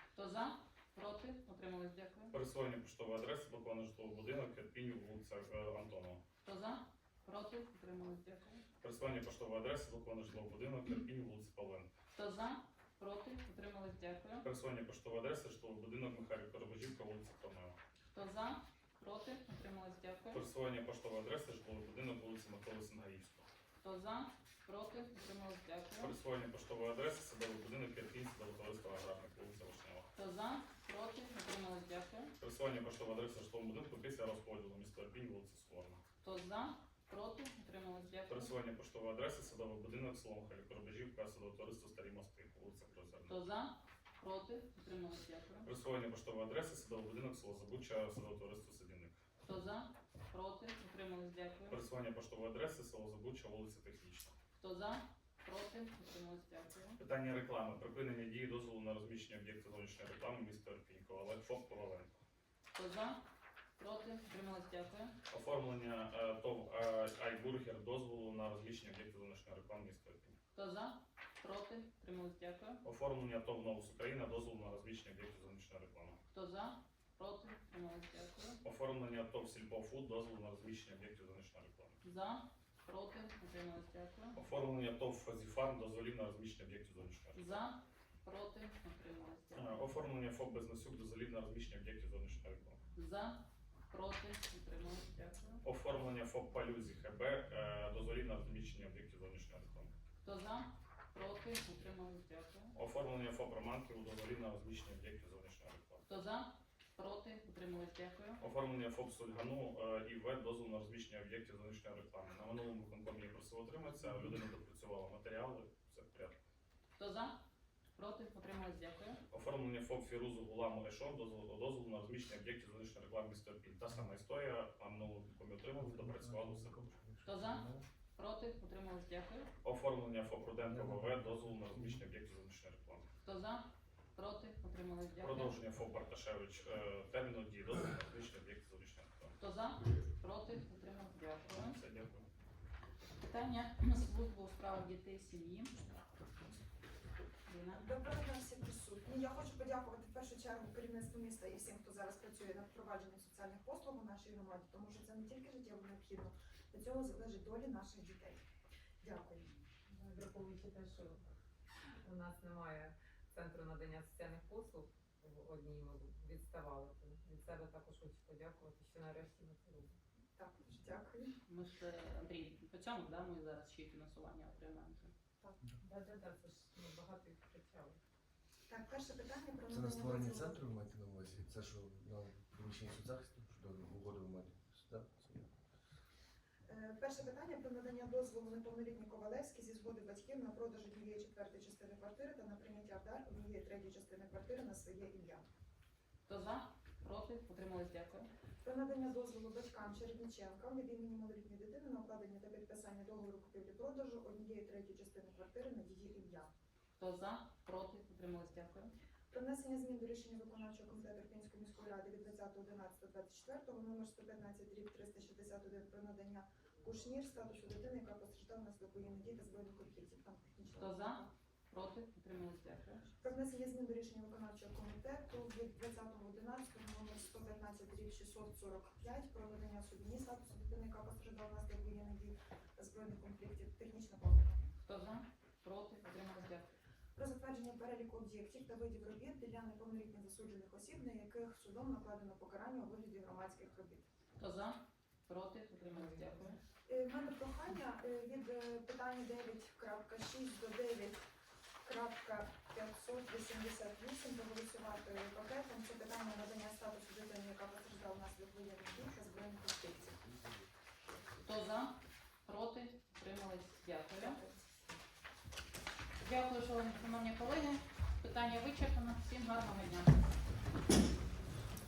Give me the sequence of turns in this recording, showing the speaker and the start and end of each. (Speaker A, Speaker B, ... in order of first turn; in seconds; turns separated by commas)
Speaker A: 0.1-2.4, Speaker B: 2.3-6.2, Speaker A: 6.5-8.7, Speaker B: 8.8-11.9, Speaker A: 12.1-14.5, Speaker B: 14.4-17.8, Speaker A: 18.1-20.4, Speaker B: 20.3-23.5, Speaker A: 23.8-26.1, Speaker B: 26.0-30.1, Speaker A: 30.1-32.3, Speaker B: 32.4-36.0, Speaker A: 36.2-38.5, Speaker B: 38.3-43.3, Speaker A: 43.3-45.7, Speaker B: 45.6-49.2, Speaker A: 49.4-51.8, Speaker B: 51.7-54.3, Speaker A: 54.6-57.0, Speaker B: 57.0-62.2, Speaker A: 62.8-63.2, Speaker A: 63.8-65.2, Speaker B: 65.3-70.3, Speaker A: 70.5-72.8, Speaker B: 72.8-76.2, Speaker A: 76.3-78.6, Speaker B: 78.6-82.0, Speaker A: 82.0-84.4, Speaker B: 84.4-87.6, Speaker A: 87.3-89.9, Speaker B: 89.5-92.8, Speaker A: 93.0-95.6, Speaker B: 95.6-99.9, Speaker A: 100.2-102.7, Speaker B: 102.8-106.0, Speaker A: 106.1-108.4, Speaker B: 108.4-116.3, Speaker A: 117.0-117.4, Speaker A: 118.0-119.2, Speaker B: 119.3-127.0, Speaker C: 125.8-127.9, Speaker A: 127.2-129.5, Speaker B: 129.6-133.1, Speaker C: 130.7-132.1, Speaker A: 133.2-135.6, Speaker B: 135.2-139.3, Speaker A: 139.4-141.8, Speaker B: 141.5-142.2, Speaker A: 143.2-145.8, Speaker A: 147.5-147.9, Speaker D: 147.7-158.4, Speaker D: 159.0-159.5, Speaker E: 159.9-161.2, Speaker E: 162.0-169.9, Speaker D: 170.4-171.3, Speaker A: 171.5-175.1, Speaker E: 175.8-178.0, Speaker D: 178.7-180.9, Speaker C: 179.7-185.5, Speaker D: 186.7-195.4, Speaker A: 196.3-198.3, Speaker D: 198.6-206.5, Speaker A: 207.0-208.9, Speaker D: 209.3-221.3, Speaker A: 220.8-223.1, Speaker D: 223.2-234.6, Speaker A: 234.9-236.7, Speaker D: 237.2-244.1, Speaker A: 244.4-246.6, Speaker D: 246.9-251.2, Speaker D: 251.8-260.3, Speaker A: 261.4-264.4, Speaker D: 264.2-264.6, Speaker A: 266.2-270.3